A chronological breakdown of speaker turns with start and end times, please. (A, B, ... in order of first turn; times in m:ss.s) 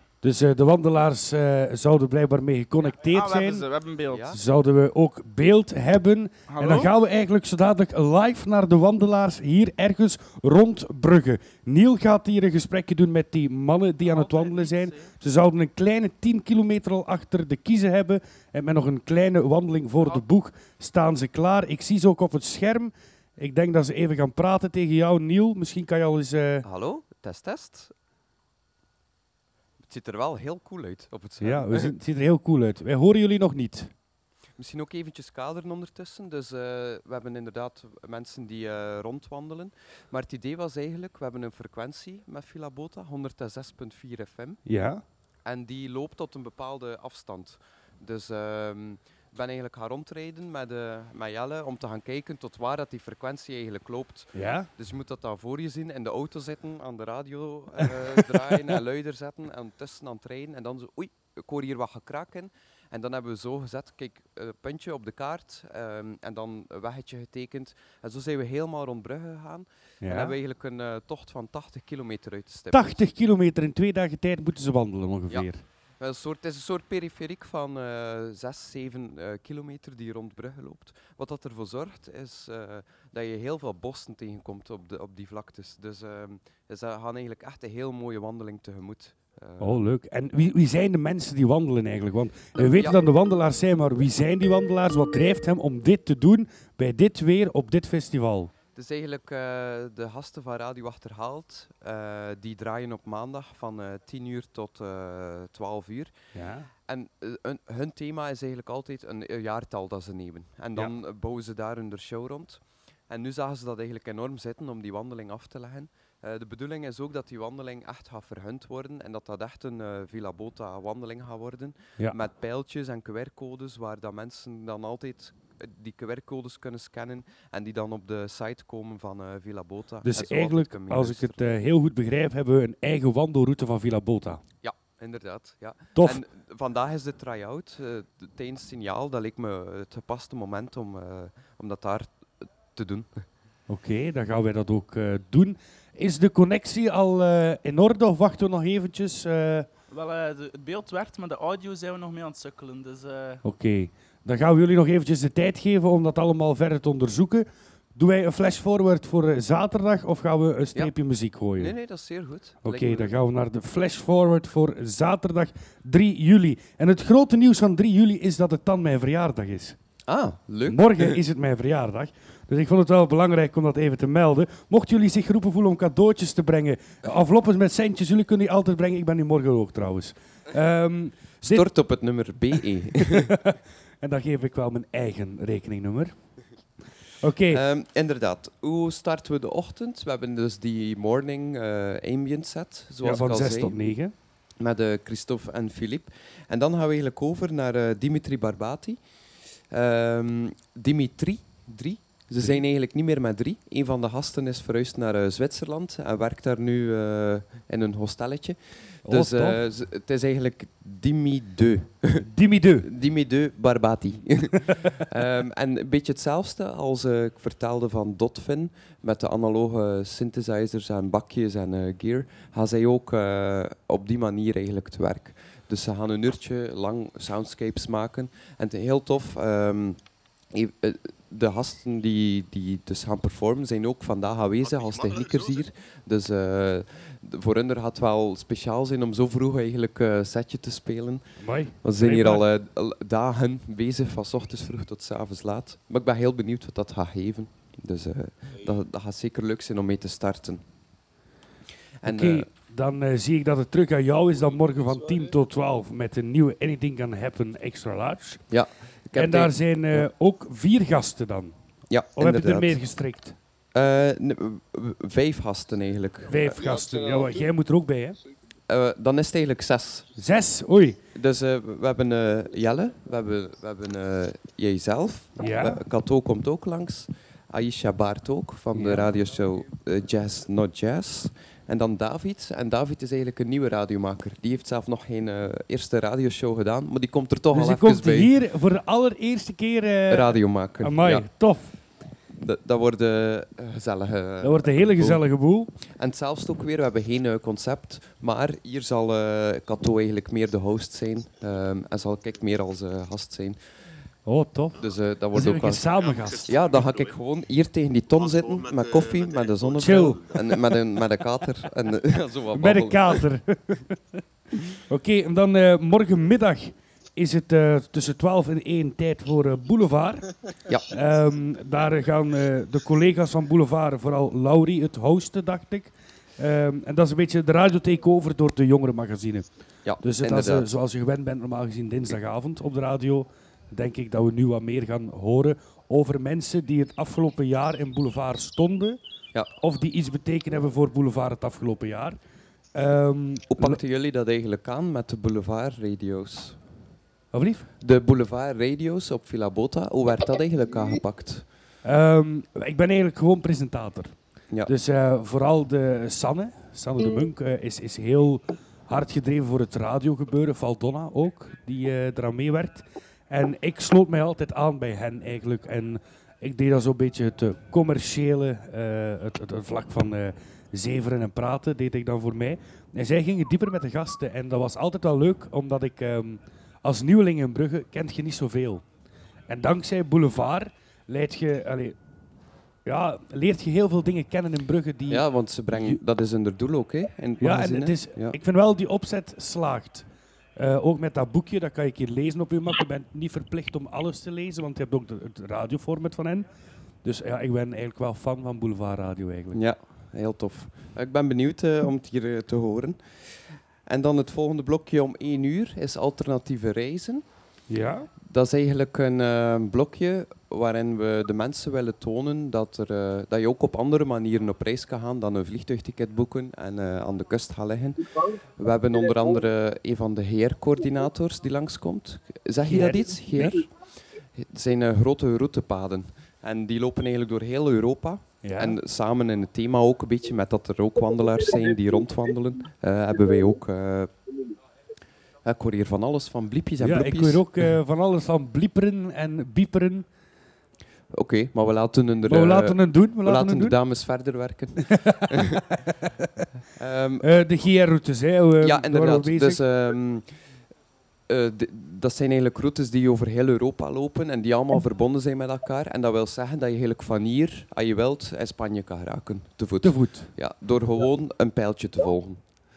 0:00.2-0:03.6 A
0:03.0-0:04.3 B
0:04.1-0:04.4 C
0:04.3-0:26.6 A
0:06.5-0:06.9 B
0:14.0-0:15.1 B
0:26.6-0:27.9 C
0:29.8-0:31.9 C
0:31.4-0:33.9 A
0:34.6-0:44.6 C
0:44.6-0:45.0 A
0:45.4-1:13.0 C
0:54.3-0:54.7 A
1:10.0-1:10.4 A
1:12.7-1:15.6 A
1:15.3-1:29.8 C
1:29.6-1:38.5 A
1:32.6-1:33.0 C
1:38.7-1:46.1 C
1:46.3-1:46.7 A
1:46.8-2:11.4 C
2:10.0-2:14.4 A
2:14.6-2:23.2 C
2:23.7-2:29.7 A
2:29.9-2:33.4 B
2:33.4-2:41.7 A
2:41.6-2:43.2 C
2:42.6-2:49.8 A
2:50.0-2:51.2 C
2:50.7-3:01.7 A
3:01.4-3:03.3 C
3:03.0-3:06.4 A
3:07.2-3:07.6 A
3:07.5-3:13.9 C
3:13.0-3:14.1 A
3:14.6-3:19.0 C
3:19.6-3:32.2 C
3:22.4-3:22.6 A
3:29.0-3:29.6 A
3:32.2-3:32.9 A
3:32.8-4:01.2 C
4:01.4-4:02.4 A
4:01.8-4:10.6 C
4:12.0-4:12.5 C
4:12.0-4:18.4 A
4:18.5-4:20.1 C
4:19.1-4:21.6 A
4:21.9-4:22.9 C
4:22.1-4:23.4 A
4:23.7-4:26.7 C
4:26.3-4:28.2 A
4:28.7-4:30.1 C
4:30.2-4:31.0 A
4:31.1-4:48.3 C
4:35.4-4:35.8 A
4:38.7-4:39.1 A
4:47.5-4:51.8 A
4:50.1-4:51.3 C
4:52.3-4:55.2 C
4:54.4-4:55.7 A
4:55.9-5:03.6 C
5:04.2-5:06.5 A
5:04.8-5:13.2 C
5:09.8-5:10.4 A
5:12.5-5:14.2 A
5:14.9-5:20.3 A
5:20.9-5:29.4 A
5:29.8-5:30.7 C
5:30.0-5:39.0 A
5:39.6-5:42.2 A
5:42.7-5:43.8 A
5:43.5-5:46.6 C
5:47.3-5:47.7 A
5:47.8-5:51.5 C
5:51.8-6:18.8 A
6:19.5-6:22.0 A
6:22.8-6:26.0 A
6:25.1-6:28.4 C
6:27.4-6:36.5 A
6:37.0-6:39.6 A
6:39.5-6:47.2 C
6:47.7-6:48.1 A
6:48.2-7:14.1 C
7:02.6-7:03.6 A
7:08.4-7:08.8 A
7:15.4-7:17.7 C
7:16.8-7:20.1 A
7:21.1-7:25.6 C
7:22.2-7:23.8 A
7:25.0-7:25.6 A
7:26.7-7:27.3 C
7:27.2-7:29.6 A
7:28.6-7:30.3 C
7:31.3-7:42.4 C
7:39.8-7:40.3 A